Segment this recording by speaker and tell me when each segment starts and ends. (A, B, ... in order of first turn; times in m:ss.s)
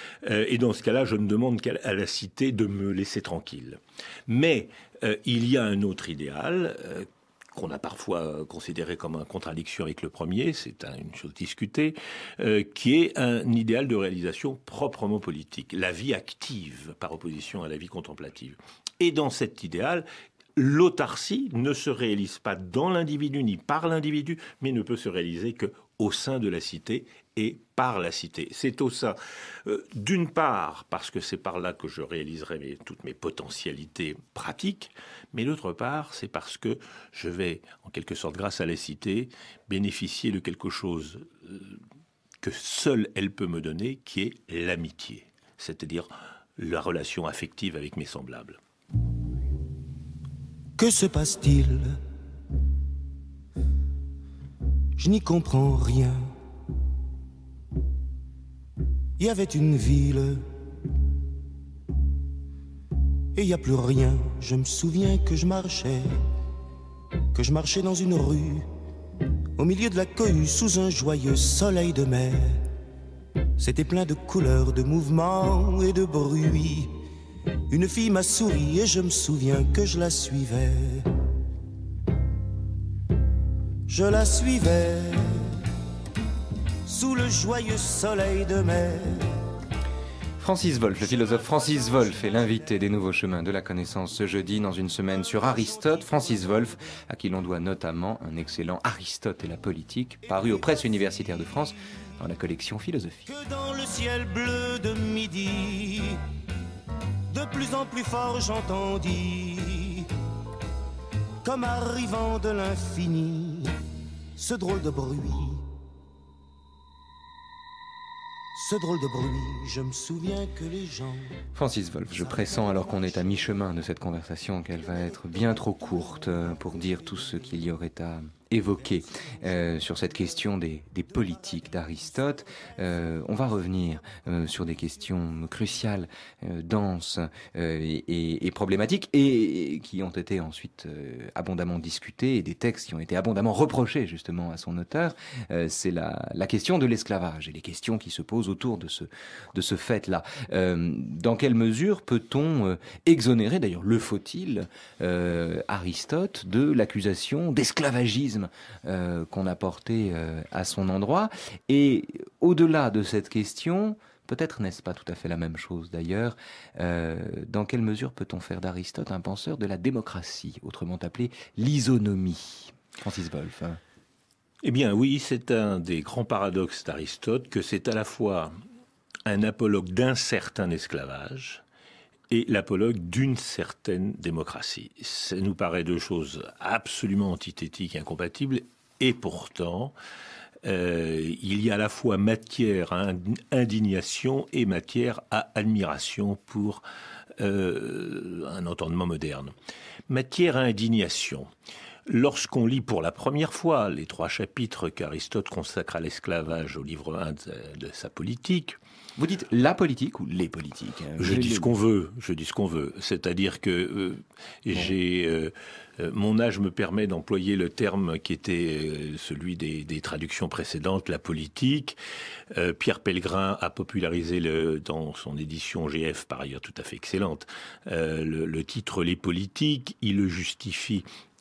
0:00.2-0:41.8 A
0:42.4-0:48.6 A
0:50.8-0:52.0 B
0:55.0-0:56.3 B
0:59.2-1:00.4 B
1:03.4-1:06.1 B
1:07.3-1:08.7 B
1:09.6-1:12.6 B
1:13.6-1:16.9 B
1:17.7-1:21.1 B
1:23.9-1:25.6 B
1:26.9-1:29.2 B
1:30.4-1:43.3 C
1:31.1-1:32.7 B
1:35.1-1:36.9 B
1:40.3-1:41.3 B
1:43.3-1:46.2 B
1:47.3-1:50.1 B
1:51.4-1:53.7 B
1:54.4-1:55.6 B
1:58.6-2:01.3 B
2:01.6-2:53.8 C
2:02.1-2:03.1 B
2:54.6-2:58.5 A
2:59.3-3:01.6 A
3:02.3-3:10.0 A
3:10.6-3:16.8 A
3:17.4-3:19.5 A
3:20.1-3:21.5 A
3:22.1-3:28.8 A
3:29.2-3:31.7 C
3:31.2-3:42.0 A
3:42.5-3:51.1 A